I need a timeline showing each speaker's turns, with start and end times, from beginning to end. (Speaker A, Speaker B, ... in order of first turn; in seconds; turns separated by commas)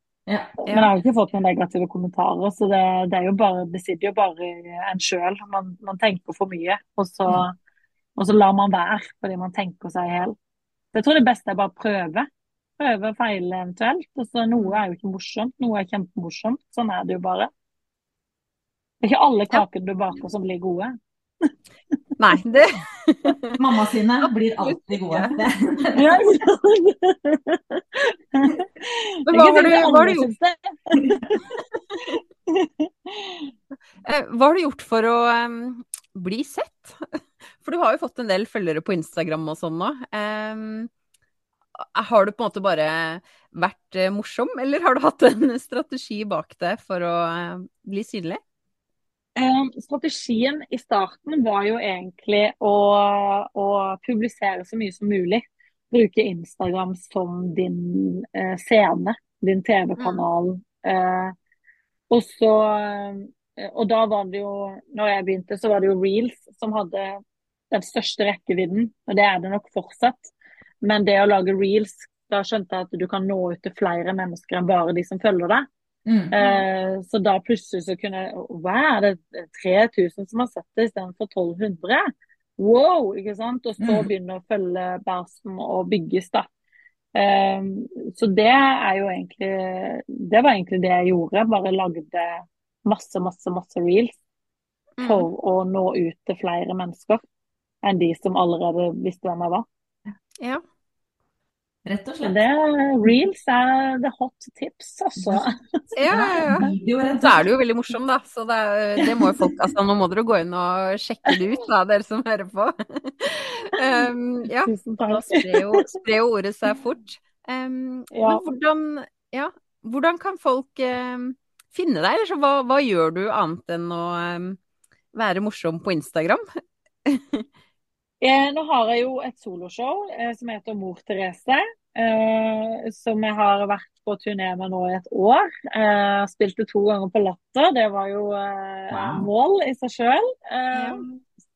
Speaker A: 0.3-0.6, Speaker B: 0.7-0.9, Speaker C: 0.7-7.5, Speaker C: 8.2-10.3, Speaker C: 10.9-12.3, Speaker C: 12.8-17.5, Speaker C: 19.0-20.9, Speaker B: 22.2-23.6, Speaker A: 23.6-26.1, Speaker B: 24.6-25.4, Speaker C: 25.9-31.4, Speaker B: 29.3-30.3, Speaker A: 31.0-31.3, Speaker C: 32.5-33.5, Speaker B: 34.0-40.9, Speaker B: 41.8-48.4, Speaker C: 49.4-61.3, Speaker B: 60.0-60.2, Speaker C: 62.1-67.2, Speaker C: 67.7-75.7, Speaker A: 76.0-76.3, Speaker C: 76.3-82.0, Speaker B: 76.4-76.6, Speaker C: 82.6-86.5, Speaker A: 83.8-84.1, Speaker C: 87.1-94.2, Speaker B: 95.0-95.3, Speaker C: 95.0-97.2, Speaker C: 97.8-99.7, Speaker A: 101.8-102.4, Speaker C: 102.2-105.5, Speaker B: 106.0-124.6, Speaker A: 106.1-107.5, Speaker C: 114.6-115.8, Speaker C: 118.1-118.4, Speaker B: 125.1-126.4, Speaker B: 127.0-127.5, Speaker C: 128.2-141.2, Speaker A: 138.9-139.3, Speaker B: 140.7-141.0